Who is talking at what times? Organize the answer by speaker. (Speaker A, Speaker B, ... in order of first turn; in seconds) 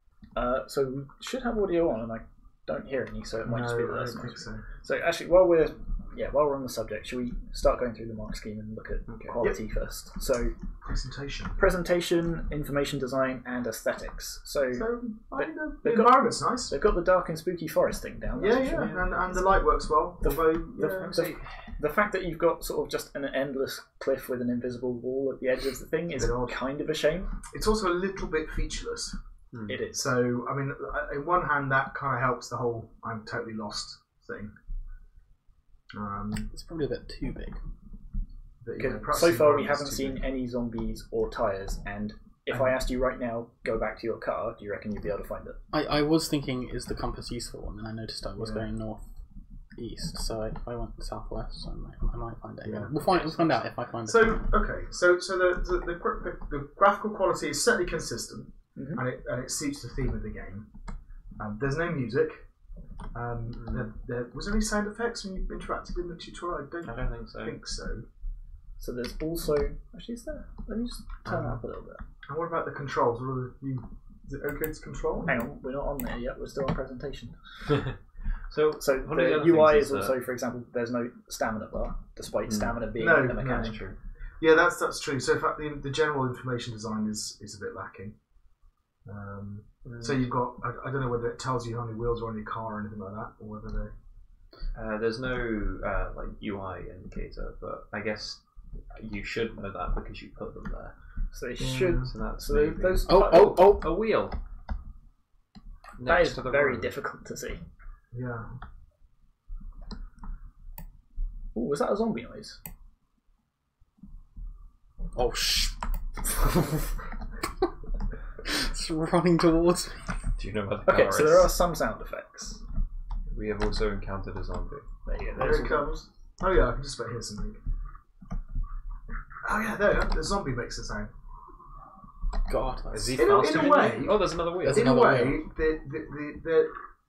Speaker A: 0.3-10.5, 11.6-14.8, 15.4-19.6, 20.2-27.3, 29.7-30.0, 38.8-45.6, 58.8-59.0, 68.8-72.0, 75.3-77.7, 78.8-83.9, 101.3-103.8, 106.0-107.6, 111.5-112.6, 120.8-122.6, 125.0-125.9
Speaker B: 3.5-4.6, 10.8-11.7, 14.7-16.7, 18.4-21.1, 26.2-26.6, 27.5-29.1, 29.9-34.5, 35.9-36.5, 38.6-40.2, 48.4-48.7, 52.6-53.1, 54.0-60.7, 61.4-62.4, 63.1-68.0, 71.2-71.6, 72.3-75.4, 83.0-83.8, 84.4-88.2, 89.0-93.9, 101.6-102.1, 108.1-108.5, 125.3-127.6, 129.4-131.1, 133.2-136.7
Speaker C: 9.1-9.4, 21.0-21.4, 29.5-29.8, 63.5-63.9, 66.8-67.6, 77.7-77.9, 78.5-80.2, 82.5-82.8, 89.8-90.3, 94.7-98.4, 98.9-100.9, 102.0-104.4, 106.0-106.9, 120.4-121.5, 123.3-124.8, 132.9-135.1
Speaker D: 36.5-37.6, 45.7-49.1, 49.8-54.5, 103.1-103.9, 115.1-116.8, 118.4-120.0, 132.5-133.9, 134.6-135.4